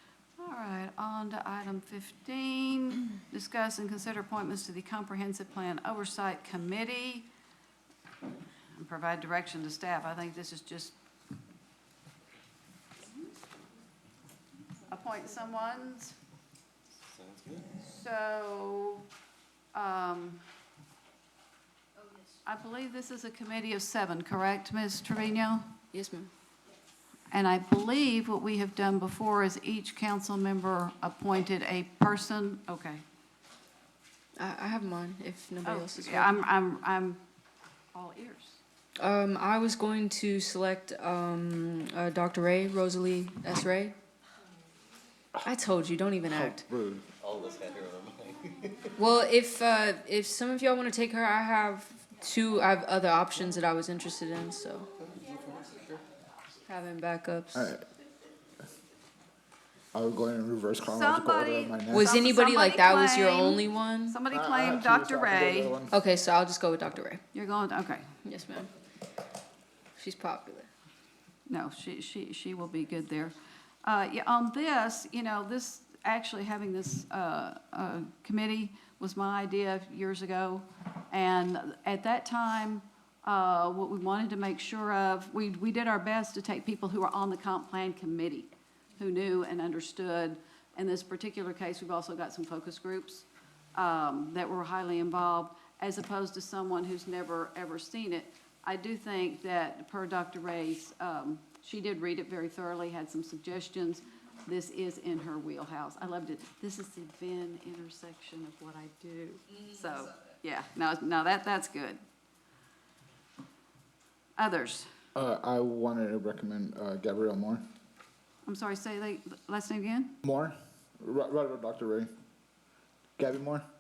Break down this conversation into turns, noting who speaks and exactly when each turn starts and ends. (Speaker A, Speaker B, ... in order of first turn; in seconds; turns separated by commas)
Speaker A: 0.4-7.2, Speaker A: 8.8-10.9, Speaker A: 14.9-16.1, Speaker B: 17.1-17.7, Speaker A: 17.8-19.1, Speaker A: 19.7-20.4, Speaker A: 22.5-25.8, Speaker C: 25.9-26.3, Speaker A: 27.3-33.0, Speaker C: 34.4-36.4, Speaker A: 35.6-37.2, Speaker A: 37.9-38.6, Speaker C: 39.0-44.0, Speaker C: 45.4-46.6, Speaker D: 46.2-47.1, Speaker B: 47.2-49.0, Speaker C: 49.0-54.9, Speaker B: 55.1-55.9, Speaker C: 56.6-57.7, Speaker D: 57.5-57.8, Speaker D: 59.9-62.1, Speaker A: 60.8-65.8, Speaker C: 61.9-64.2, Speaker D: 64.3-65.9, Speaker C: 65.9-67.2, Speaker A: 67.3-68.0, Speaker C: 68.2-68.7, Speaker C: 70.0-70.7, Speaker A: 71.5-112.0, Speaker A: 114.4-114.9, Speaker D: 115.2-117.6, Speaker A: 118.5-120.2, Speaker D: 120.2-122.1, Speaker D: 123.2-123.7